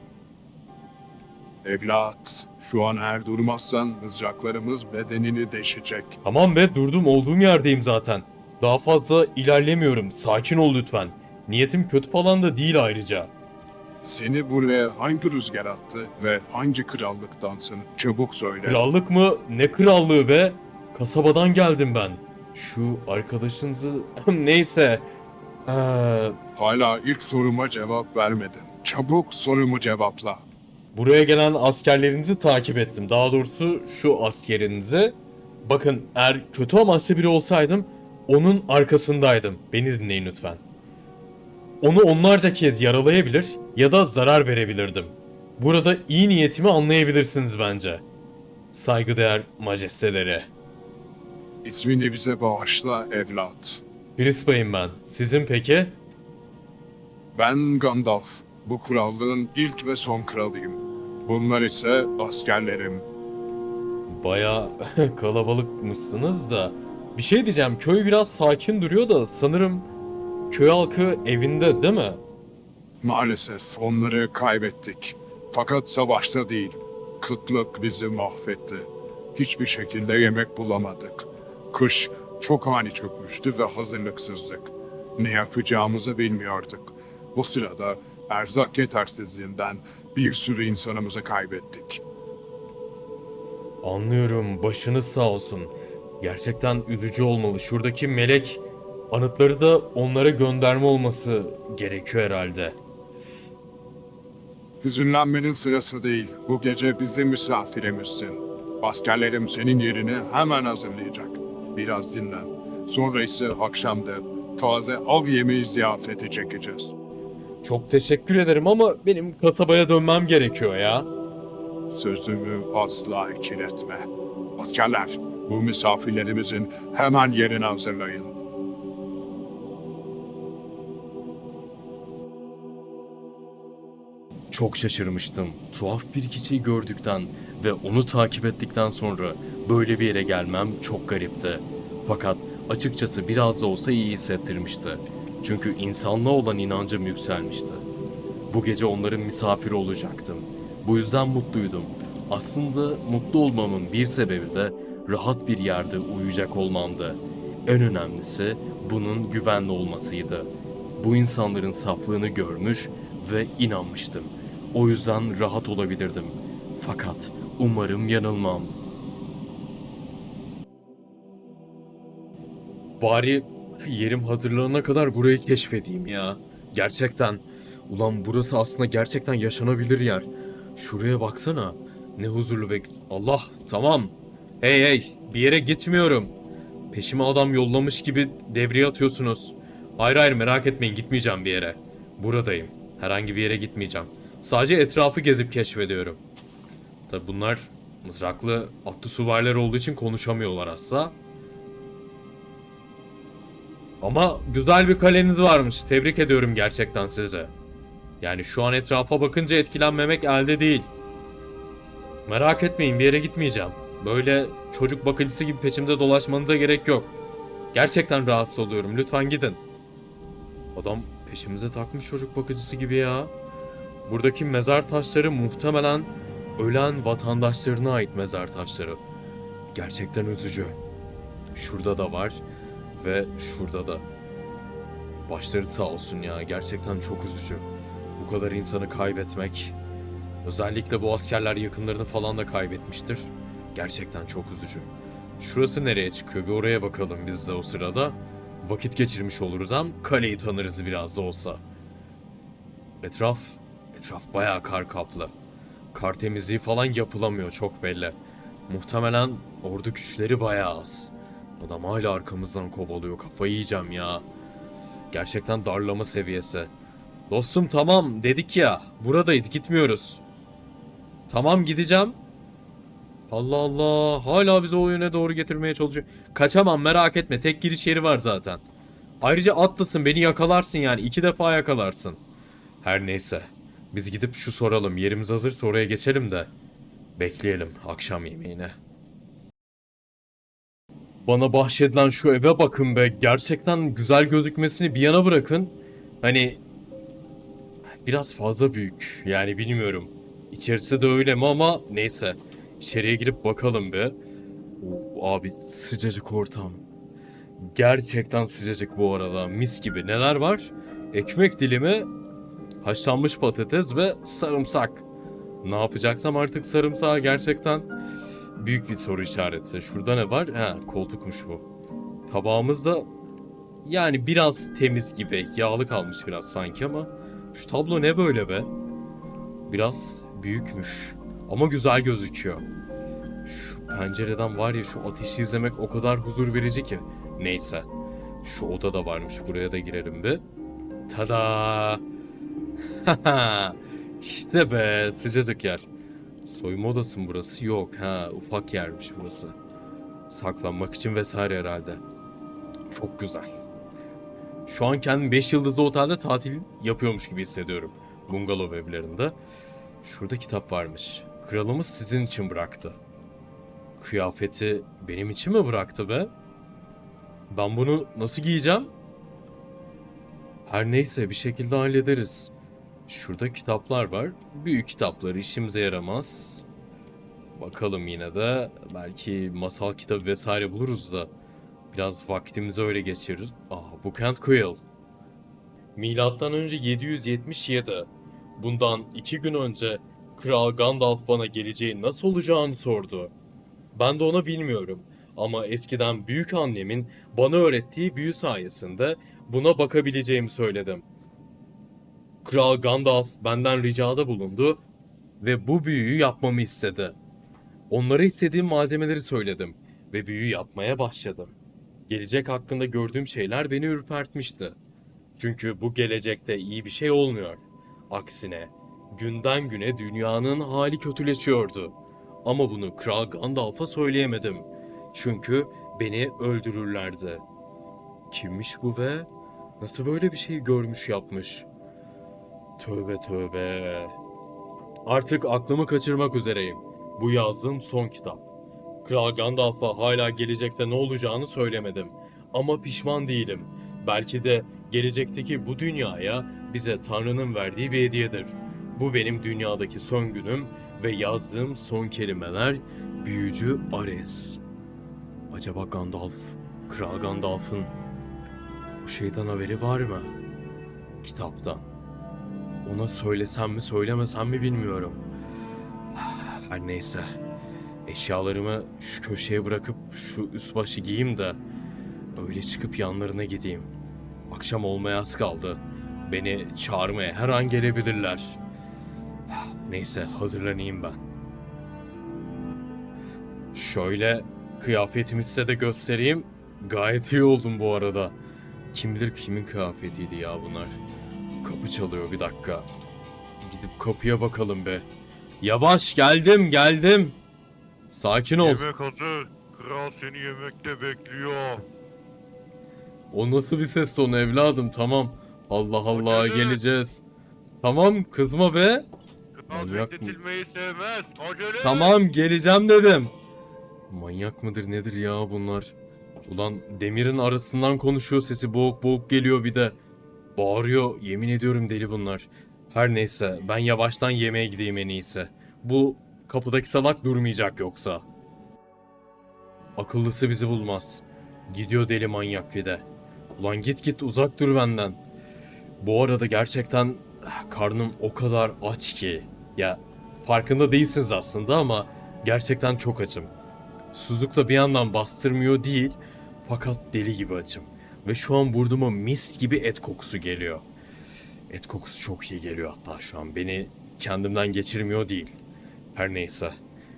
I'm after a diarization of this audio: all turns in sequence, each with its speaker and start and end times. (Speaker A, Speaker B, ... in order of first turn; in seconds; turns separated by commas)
Speaker A: 1.6-6.2, Speaker B: 6.2-13.3, Speaker A: 14.0-18.9, Speaker B: 18.6-25.1, Speaker B: 25.6-26.4, Speaker A: 26.6-30.4, Speaker B: 30.9-40.6, Speaker B: 41.8-48.0, Speaker B: 48.7-50.5, Speaker A: 51.6-53.8, Speaker B: 54.2-56.0, Speaker A: 57.3-63.1, Speaker B: 64.1-69.9, Speaker B: 70.5-72.2, Speaker A: 73.0-92.0, Speaker B: 93.8-102.8, Speaker A: 104.8-116.9, Speaker B: 117.6-121.1, Speaker A: 121.9-128.3, Speaker B: 134.5-147.8, Speaker B: 148.5-168.7, Speaker B: 173.0-186.3, Speaker B: 186.9-196.2, Speaker B: 197.1-201.1, Speaker B: 204.0-207.5, Speaker B: 208.2-210.9, Speaker B: 212.2-217.2, Speaker B: 217.7-219.6, Speaker B: 220.7-223.3, Speaker B: 224.1-229.0, Speaker B: 229.7-230.8, Speaker B: 231.5-232.4, Speaker B: 232.9-234.0, Speaker B: 235.3-239.7, Speaker B: 240.4-244.9, Speaker B: 245.4-251.6, Speaker B: 253.0-255.3, Speaker B: 255.9-258.1, Speaker B: 258.7-264.2, Speaker B: 265.1-266.7, Speaker B: 267.3-270.2, Speaker B: 271.3-272.2, Speaker B: 273.3-278.6, Speaker B: 279.2-282.2, Speaker B: 282.8-286.5, Speaker B: 287.2-288.8, Speaker B: 291.2-296.6, Speaker B: 298.0-304.1, Speaker B: 304.8-306.8, Speaker B: 307.6-312.1, Speaker B: 312.8-315.1, Speaker B: 315.6-317.9, Speaker B: 318.6-321.6, Speaker B: 322.3-323.1, Speaker B: 323.8-328.7, Speaker B: 329.7-332.6, Speaker B: 333.4-337.9, Speaker B: 338.4-340.4, Speaker B: 341.1-342.0, Speaker B: 343.0-345.9, Speaker B: 346.4-349.5, Speaker B: 350.3-352.0, Speaker B: 352.9-353.6, Speaker B: 354.7-359.4, Speaker B: 360.0-363.0, Speaker B: 364.0-366.3, Speaker B: 367.5-368.9, Speaker B: 370.6-372.5, Speaker B: 373.1-376.6, Speaker B: 377.5-381.3, Speaker B: 381.9-384.8, Speaker B: 385.9-393.3, Speaker B: 393.9-401.0, Speaker B: 402.4-404.8, Speaker B: 405.4-407.2, Speaker B: 407.9-411.5, Speaker B: 412.1-414.8, Speaker B: 415.4-427.4, Speaker B: 428.3-429.3, Speaker B: 429.8-431.6, Speaker B: 432.8-434.1, Speaker B: 435.1-438.4, Speaker B: 439.0-454.6, Speaker B: 455.5-457.9, Speaker B: 459.0-460.3, Speaker B: 461.2-461.9, Speaker B: 462.8-465.2, Speaker B: 466.1-467.3, Speaker B: 468.1-471.6, Speaker B: 472.3-473.9, Speaker B: 474.5-478.6, Speaker B: 479.5-481.2, Speaker B: 483.7-488.3, Speaker B: 488.9-491.0, Speaker B: 491.6-492.9, Speaker B: 493.6-495.0, Speaker B: 495.6-497.4, Speaker B: 498.1-498.9, Speaker C: 498.6-501.9, Speaker B: 503.3-507.2, Speaker C: 506.1-506.8, Speaker B: 507.8-509.1, Speaker C: 509.7-512.2, Speaker B: 509.7-510.4, Speaker B: 511.8-513.3, Speaker B: 514.1-515.9, Speaker B: 516.5-520.0, Speaker B: 520.5-528.2, Speaker B: 530.0-533.0, Speaker B: 533.6-535.2, Speaker B: 536.0-543.5, Speaker B: 544.1-550.8, Speaker B: 551.7-555.6, Speaker B: 556.1-556.8